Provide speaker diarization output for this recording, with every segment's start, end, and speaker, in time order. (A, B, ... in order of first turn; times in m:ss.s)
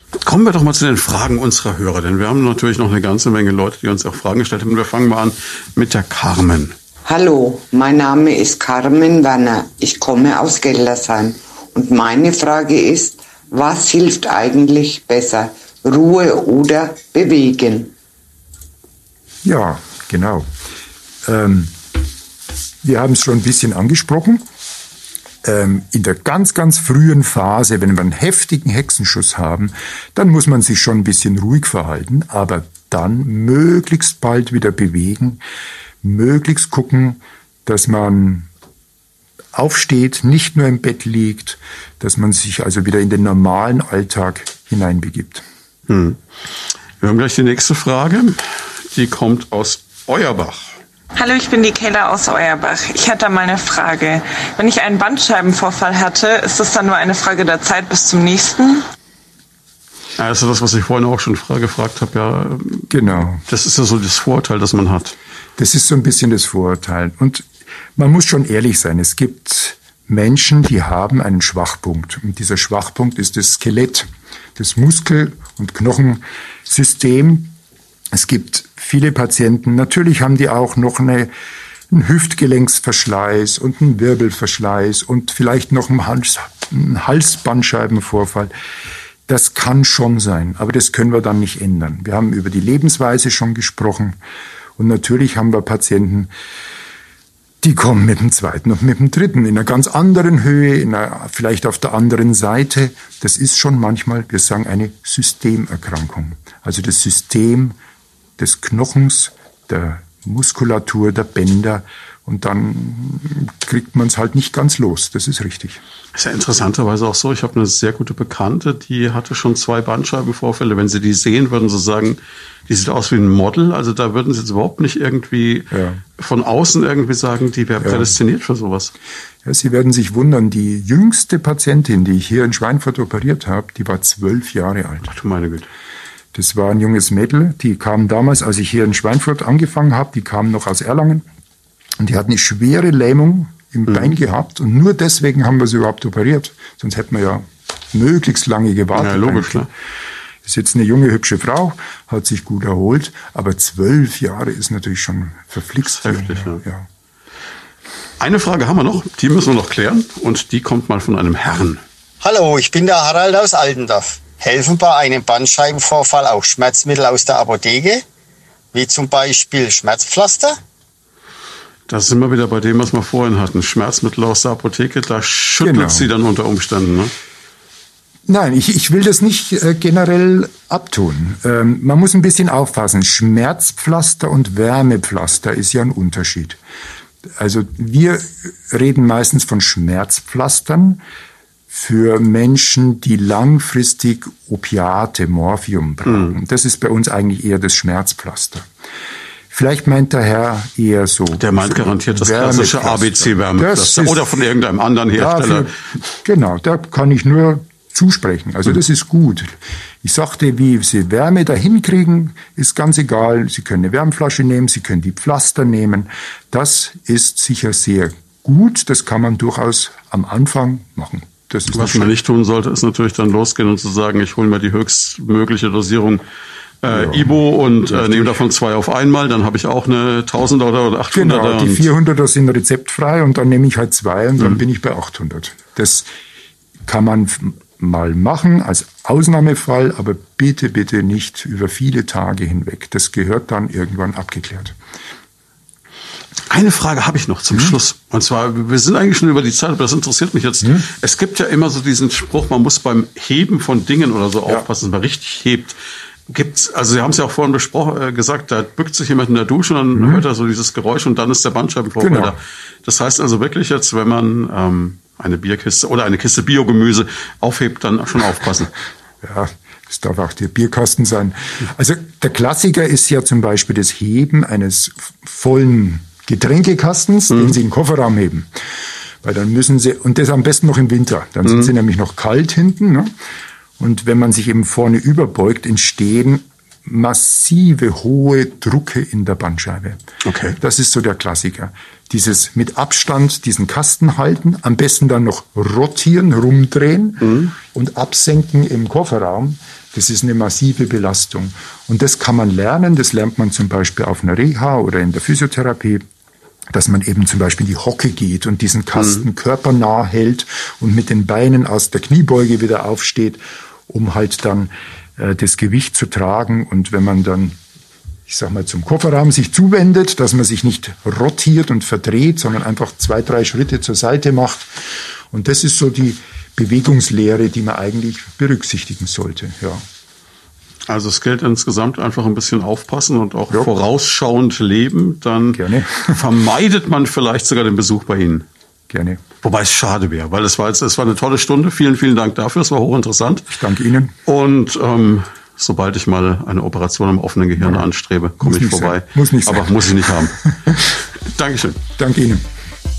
0:00.2-0:06.8 A
0:07.0-0:17.9 B
0:19.4-0:20.5 C
0:21.2-0:21.7 C
0:22.8-0:24.4 C
0:25.4-0:35.4 C
0:36.0-0:38.5 C
0:39.5-0:45.4 C
0:45.9-0:46.2 A
0:47.0-0:50.8 A
0:51.2-0:58.9 D
1:00.2-1:05.2 A
1:02.9-1:03.4 C
1:05.6-1:17.6 C
1:18.1-1:21.3 C
1:21.9-1:28.5 C
1:29.3-1:34.2 C
1:34.8-1:36.3 C
1:37.6-1:47.8 C
1:48.4-1:55.8 C
1:56.1-2:08.9 A
2:05.7-2:06.0 C
2:07.8-2:08.1 C
2:09.4-2:15.1 C
2:15.0-2:15.7 A
2:16.3-2:21.2 C
2:22.0-2:29.7 C
2:28.9-2:29.7 A
2:30.4-2:36.9 C
2:35.9-2:36.6 A
2:38.2-2:41.8 A
2:42.2-2:48.0 E
2:48.7-2:50.6 E
2:51.9-2:57.1 A
2:55.6-2:56.1 C
2:58.2-3:06.6 C
3:07.2-3:11.0 C
3:11.7-3:18.7 C
3:16.1-3:16.3 A
3:19.5-3:24.3 C
3:21.4-3:25.7 A
3:25.2-3:42.1 C
3:41.7-3:46.2 A
3:46.8-3:51.9 A
3:46.9-3:48.4 C
3:51.1-3:56.1 C
3:56.8-4:04.8 C
4:06.5-4:15.8 A
4:16.3-4:28.7 A
4:20.0-4:20.2 C
4:22.0-4:22.4 C
4:29.2-4:38.5 C
4:39.2-4:43.1 C
4:43.8-4:50.0 C
4:50.2-4:50.6 A
4:50.6-5:06.0 C
4:57.2-4:57.5 A
5:06.7-5:17.6 C
5:18.3-5:29.8 C
5:30.9-5:38.4 A
5:35.5-5:36.2 C
5:38.9-5:39.2 C
5:39.4-5:43.5 A
5:43.5-5:44.1 C
5:44.2-5:50.4 A
5:47.6-5:47.8 C
5:48.4-5:51.0 C
5:51.2-5:51.8 A
5:52.0-5:52.4 C